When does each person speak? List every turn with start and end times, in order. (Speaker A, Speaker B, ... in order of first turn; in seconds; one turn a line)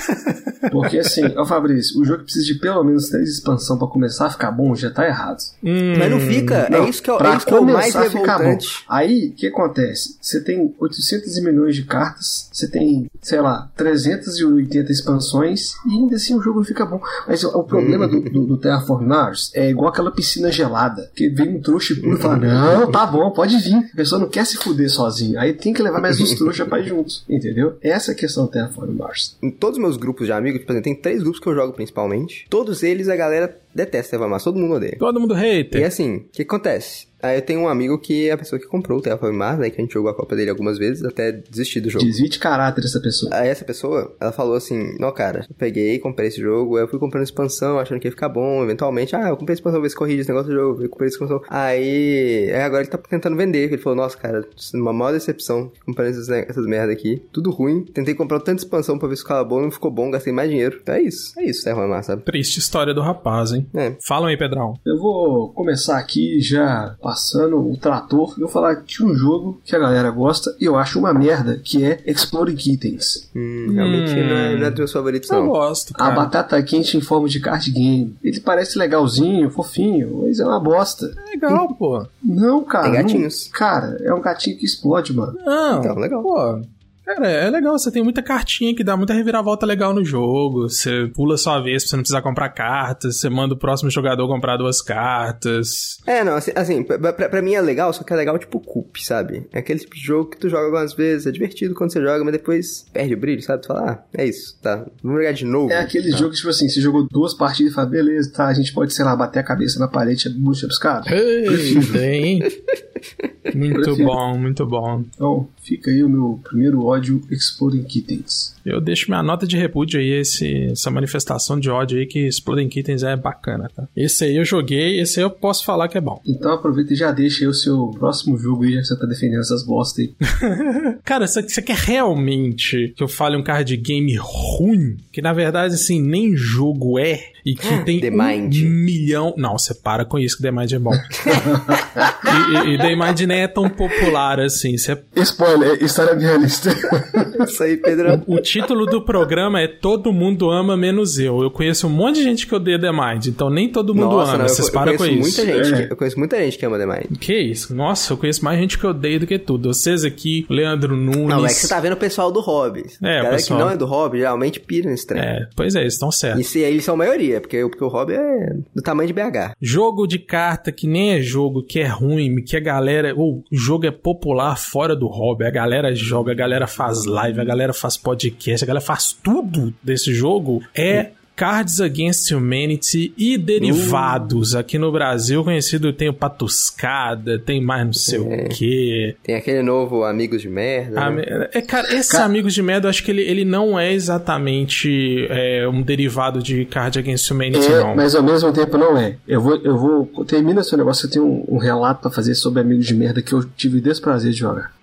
Speaker A: 0.7-5.5
Speaker B: 5.6-6.6
Speaker C: 5.9-8.8
Speaker A: 6.7-29.3
Speaker C: 17.7-18.3
Speaker C: 29.4-35.0
Speaker B: 35.0-35.9
Speaker C: 35.7-42.1
Speaker A: 42.0-43.3
Speaker C: 43.3-62.2
Speaker B: 62.2-64.8
Speaker C: 63.7-64.0
Speaker A: 64.8-73.2
Speaker C: 73.3-75.5
Speaker B: 73.7-76.3
Speaker A: 75.9-81.2
Speaker B: 81.2-82.1
Speaker A: 82.2-85.4
Speaker C: 82.8-83.5
Speaker B: 85.4-96.0
Speaker C: 85.7-86.3
Speaker C: 96.0-106.2
Speaker A: 105.7-112.1
Speaker B: 111.1-112.5
Speaker B: 113.5-115.1
Speaker A: 113.7-114.1
Speaker A: 115.2-118.5
Speaker B: 118.6-126.2
Speaker A: 126.2-130.2
Speaker B: 130.3-141.5
Speaker C: 137.6-138.8
Speaker C: 141.1-142.9
Speaker A: 141.3-142.1
Speaker B: 142.2-145.0
Speaker A: 145.1-147.5
Speaker C: 147.4-148.3
Speaker B: 148.2-155.4
Speaker C: 153.9-157.1
Speaker A: 155.5-155.9
Speaker B: 157.1-161.8
Speaker C: 161.3-165.3
Speaker B: 163.0-163.8
Speaker B: 165.1-166.4
Speaker C: 166.3-169.5
Speaker B: 169.6-189.2
Speaker C: 183.6-184.4
Speaker C: 188.1-188.6
Speaker C: 189.2-191.2
Speaker B: 190.9-198.0
Speaker A: 197.5-204.7